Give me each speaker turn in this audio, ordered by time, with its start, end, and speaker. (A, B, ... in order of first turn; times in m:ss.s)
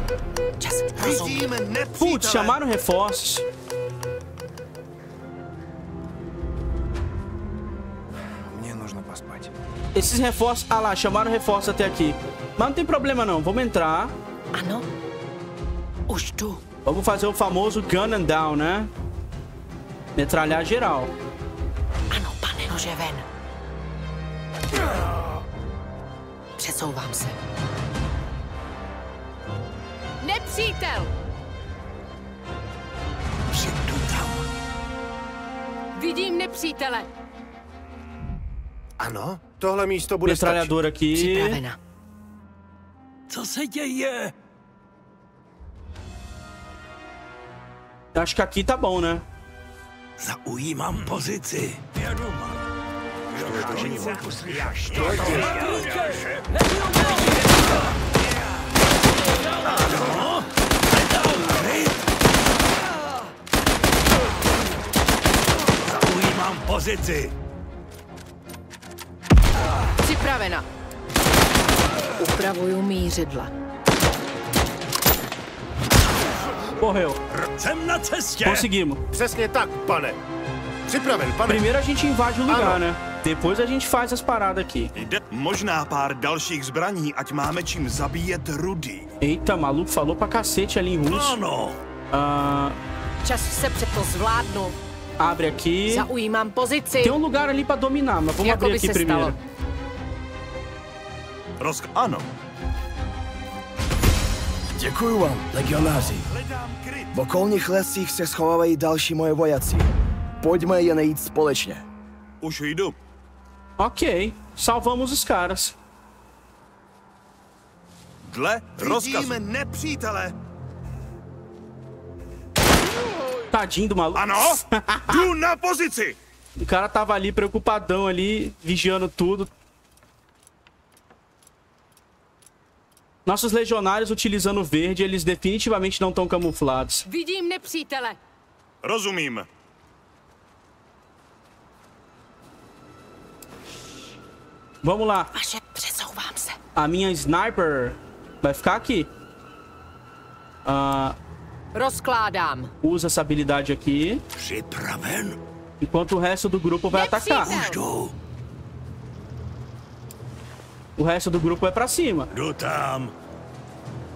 0:00.6-0:01.6 A
0:01.0-0:02.5 B
0:01.3-0:02.1 C
0:02.0-0:03.4 D
0:09.9-0:14.1 D
0:14.5-0:14.8 A
0:16.1-0:16.6 A
0:16.8-0:18.9 D
0:20.2-0:21.1 D
0:22.1-0:23.2 A
0:26.6-0:27.4 A
0:30.2-0:31.1 A
0:33.5-0:34.4 E
0:35.9-0:37.1 A
0:39.0-0:40.7 C
0:40.2-0:41.6 D
0:41.1-0:41.8 A
0:43.3-0:44.3 E
0:48.1-0:49.2 D
0:50.2-0:52.5 E
0:53.3-0:57.2 E
0:53.6-0:55.9 B
0:59.6-1:02.0 E
1:05.8-1:07.3 E
1:10.0-1:10.6 A
1:12.2-1:13.5 A
1:16.8-1:17.2 D
1:17.3-1:18.7 E
1:18.4-1:19.0 D
1:19.1-1:20.2 C
1:20.9-1:21.6 C
1:21.5-1:24.9 D
1:22.5-1:22.8 C
1:25.0-1:29.1 B
1:29.2-1:31.4 D
1:31.1-1:31.8 E
1:32.1-1:32.8 D
1:33.2-1:34.8 A
1:35.2-1:36.1 D
1:35.9-1:37.2 A
1:37.0-1:39.4 D
1:38.4-1:39.3 A
1:41.6-1:42.3 B
1:44.8-1:46.3 F
1:46.2-1:47.1 B
1:47.1-1:49.9 F
1:50.4-1:51.8 F
1:52.4-1:53.0 B
1:53.8-1:55.7 D
1:58.2-1:59.4 B
1:58.8-2:00.3 C
2:03.5-2:05.2 D
2:04.1-2:06.2 B
2:06.6-2:09.5 D
2:13.2-2:17.0 D
2:17.0-2:18.2 A
2:18.8-2:19.5 B
2:24.8-2:25.3 D
2:25.3-2:26.6 A
2:26.8-2:29.1 D
2:30.6-2:31.2 D
2:31.7-2:32.7 A
2:32.8-2:34.2 D
2:34.4-2:35.4 E
2:35.8-2:37.6 D
2:36.9-2:37.8 A
2:37.4-2:38.1 E
2:41.0-2:42.3 D
2:42.3-2:43.1 E